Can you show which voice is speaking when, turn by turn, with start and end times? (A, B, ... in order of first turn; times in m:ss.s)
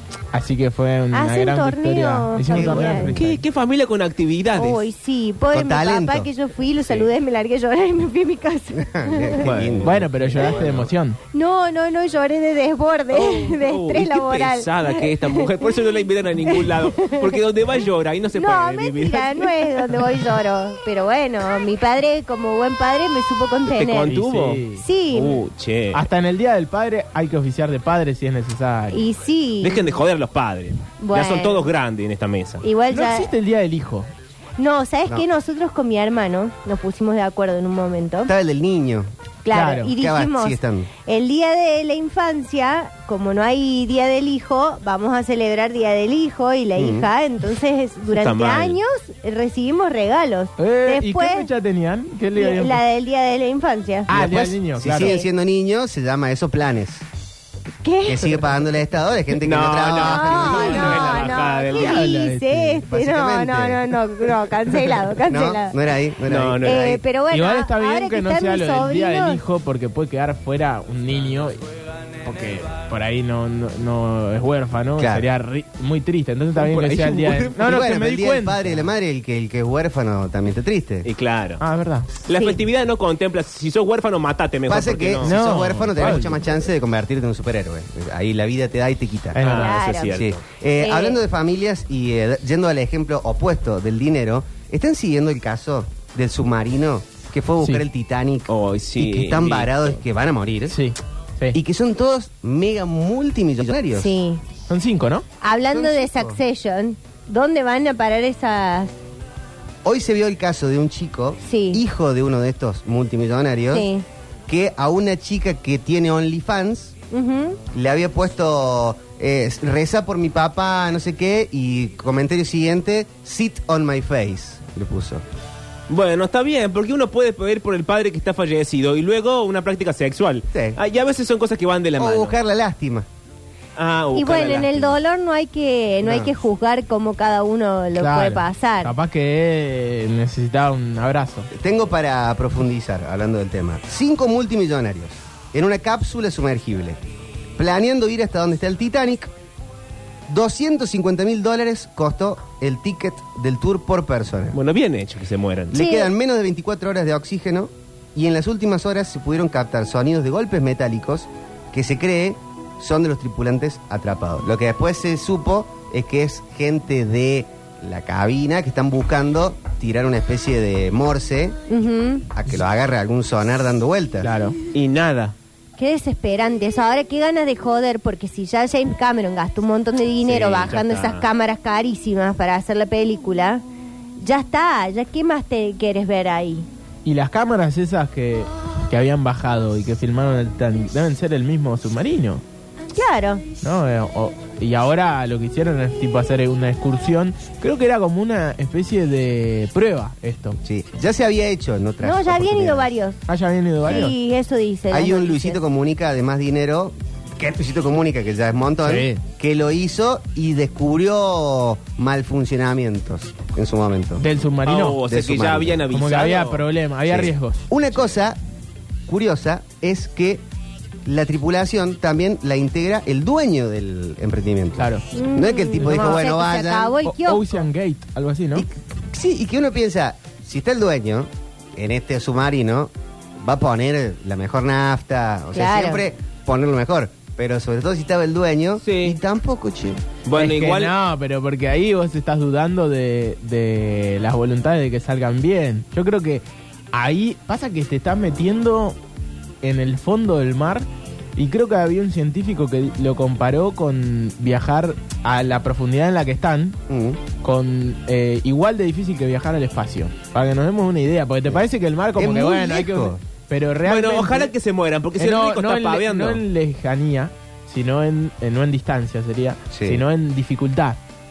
0:00.3-0:03.4 A
0:01.1-0:03.2 B
0:02.5-0:03.2 C
0:03.2-0:04.8 D
0:04.6-0:09.5 B
0:05.5-0:06.3 C
0:08.8-0:10.9 C
0:09.4-0:09.9 D
0:09.8-0:11.2 A
0:11.3-0:15.7 B
0:13.1-0:20.3 D
0:16.5-0:17.4 B
0:18.3-0:24.2 B
0:23.7-0:26.0 D
0:24.1-0:24.8 A
0:24.8-0:25.4 B
0:25.9-0:29.0 A
0:28.9-0:29.9 B
0:29.6-0:32.6 D
0:31.0-0:31.7 B
0:32.6-0:33.3 B
0:32.9-0:34.1 A
0:34.6-0:38.3 B
0:38.3-0:39.1 C
0:39.4-0:51.5 B
0:39.5-0:39.9 A
0:40.0-0:40.9 C
0:46.8-0:47.1 C
0:48.1-0:48.8 D
0:50.6-0:52.8 A
0:52.4-0:54.1 B
0:54.1-0:55.2 A
0:54.1-0:57.0 C
0:54.9-0:55.3 B
0:57.8-0:58.4 B
0:58.0-1:01.0 C
0:59.4-1:02.0 D
1:00.0-1:05.8 B
1:00.6-1:02.8 A
1:02.9-1:04.0 C
1:05.3-1:07.0 C
1:06.3-1:07.0 D
1:06.6-1:09.4 B
1:07.3-1:11.6 A
1:12.2-1:18.9 A
1:15.0-1:15.3 C
1:16.6-1:17.6 D
1:17.6-1:21.1 C
1:21.0-1:21.6 D
1:21.6-1:22.1 A
1:22.3-1:25.6 D
1:22.3-1:22.6 B
1:24.7-1:29.4 C
1:25.2-1:26.4 A
1:29.4-1:29.8 A
1:29.4-1:30.4 D
1:29.5-1:30.2 B
1:30.1-1:40.8 C
1:30.8-1:31.2 B
1:38.5-1:39.7 D
1:40.7-1:41.6 A
1:41.5-1:44.2 C
1:43.9-1:44.4 B
1:44.7-1:45.3 A
1:45.4-1:48.9 B
1:45.7-1:46.4 C
1:49.8-1:53.9 C
1:51.4-1:51.8 B
1:53.7-1:54.0 B
1:54.5-1:56.9 C
1:57.1-1:57.6 B
1:57.7-2:05.2 C
2:05.9-2:12.3 D
2:10.5-2:10.8 C
2:12.0-2:13.1 C
2:13.8-2:15.0 D
2:14.1-2:18.9 B
2:16.0-2:16.3 C
2:17.9-2:21.5 A
2:21.5-2:27.0 C
2:27.6-2:29.3 C
2:30.3-2:34.6 C
2:34.5-2:35.8 D
2:35.7-2:51.6 C
2:35.7-2:36.1 B
2:51.7-2:52.3 B
2:52.3-2:54.3 C
2:54.2-2:54.6 A
2:54.7-2:55.4 D
2:55.8-3:03.6 B
3:00.2-3:01.3 D
3:04.2-3:06.7 B
3:07.0-3:12.4 A
3:12.9-3:13.5 B
3:13.6-3:20.6 A
3:20.6-3:22.9 C
3:22.0-3:23.2 B
3:23.3-3:24.1 A
3:23.8-3:25.6 B
3:24.9-3:34.2 C
3:28.8-3:29.2 A
3:34.2-3:35.0 A
3:34.6-3:36.6 D
3:35.0-3:35.8 C
3:35.9-3:37.7 A
3:37.1-3:38.4 C
3:39.1-3:40.4 C
3:41.0-3:47.0 C
3:44.8-3:45.1 A
3:45.2-3:47.6 B
3:45.8-3:46.3 A
3:47.0-3:48.7 A
3:48.6-4:00.1 C
3:55.5-3:56.0 B
3:58.8-3:59.2 D
4:00.2-4:00.9 D
4:00.3-4:09.0 A
4:09.6-4:16.8 A
4:16.9-4:17.2 C
4:17.4-4:24.5 A
4:22.2-4:23.2 C
4:23.8-4:26.4 D
4:25.2-4:31.0 A
4:29.7-4:30.0 C